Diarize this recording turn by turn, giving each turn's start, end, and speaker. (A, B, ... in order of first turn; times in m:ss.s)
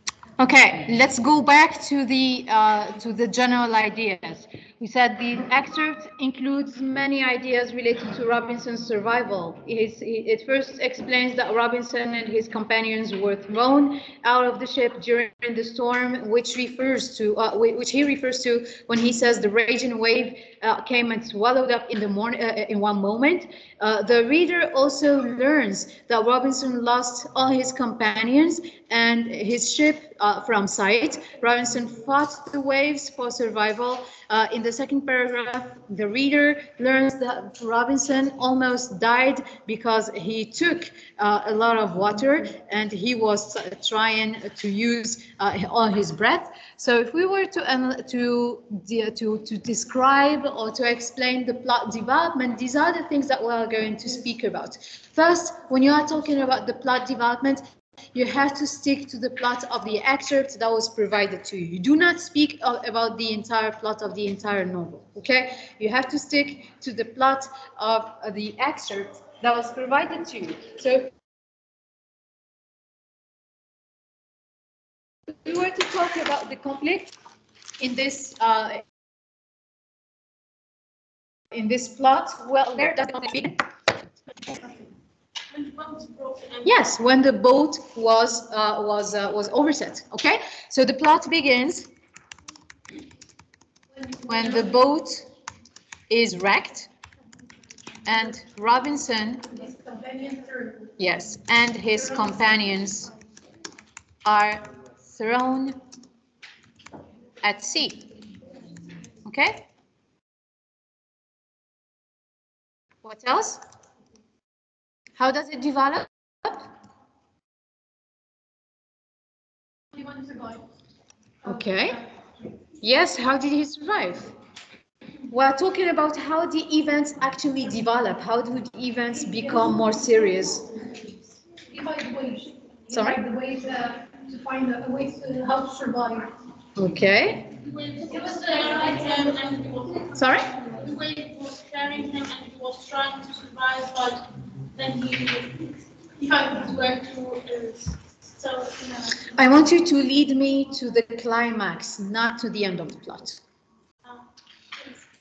0:00.4-1:11.1 A
1:15.3-1:17.1 A
1:17.8-1:18.8 A
1:21.5-1:23.6 A
1:25.5-1:26.8 B
1:26.6-1:31.9 A
1:34.3-1:35.3 A
1:36.1-1:36.9 A
1:38.1-1:39.5 A
1:39.5-1:40.9 C
1:41.0-1:43.1 A
1:44.2-1:45.8 A
1:47.4-1:48.1 A
1:49.2-1:49.7 A
1:53.0-1:53.6 A
1:55.2-1:56.7 A
1:59.9-2:00.6 C
2:01.4-2:02.0 A
2:01.4-2:01.8 C
2:02.8-2:04.3 A
2:05.3-2:10.7 A
2:09.4-2:09.9 C
2:11.7-2:16.3 C
2:12.9-2:13.2 A
2:16.8-2:17.5 A
2:17.6-2:29.1 B
2:18.0-2:19.5 C
2:20.1-2:20.5 A
2:29.3-2:33.4 A